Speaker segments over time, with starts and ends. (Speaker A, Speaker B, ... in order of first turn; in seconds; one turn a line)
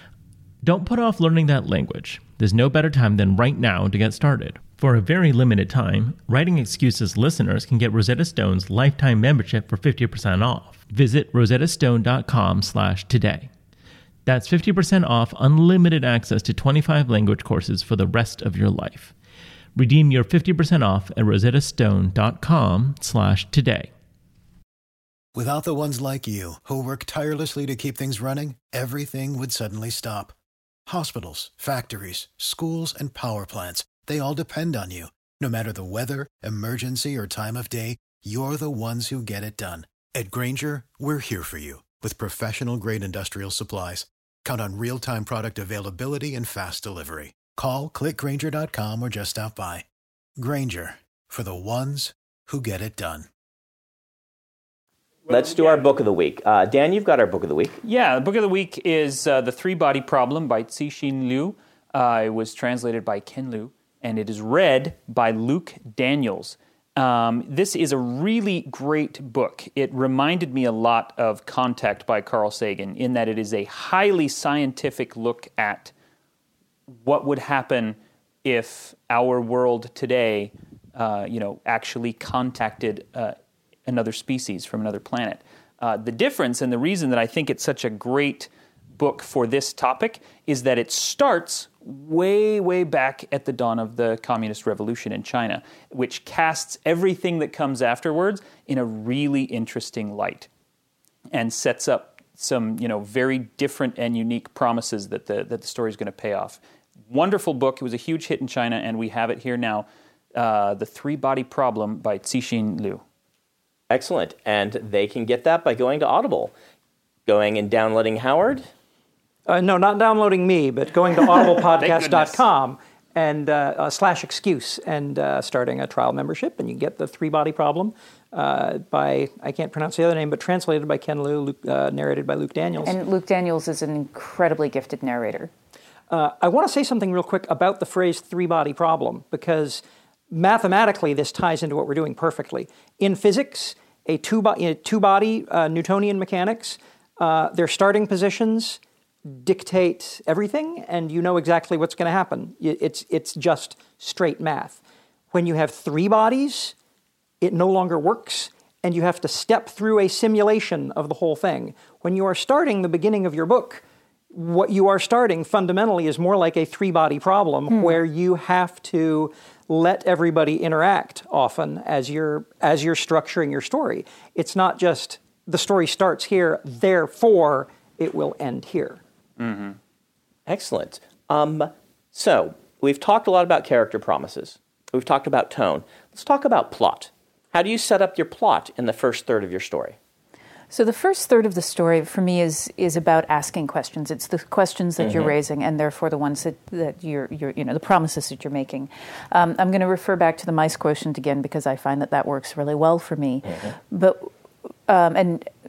Speaker A: 0.6-13.5
Speaker A: 14.2-19.1
Speaker A: 19.8-23.9
Speaker B: 25.3-30.3
Speaker B: 30.9-49.9
Speaker B: 50.4-53.3
Speaker C: 55.3-57.8
Speaker D: 57.8-75.9
Speaker D: 76.9-83.3
Speaker D: 83.9-100.5
Speaker D: 101.3-113.0
Speaker C: 113.9-116.5
Speaker C: 117.3-118.7
Speaker E: 119.5-132.9
Speaker D: 121.8-122.4
Speaker F: 132.8-135.5
Speaker E: 136.1-154.8
Speaker E: 155.3-156.7
Speaker E: 157.4-179.0
Speaker F: 167.7-168.0
Speaker D: 179.4-179.8
Speaker C: 180.5-189.9
Speaker F: 190.7-204.3
Speaker C: 195.0-195.3
Speaker F: 204.9-205.5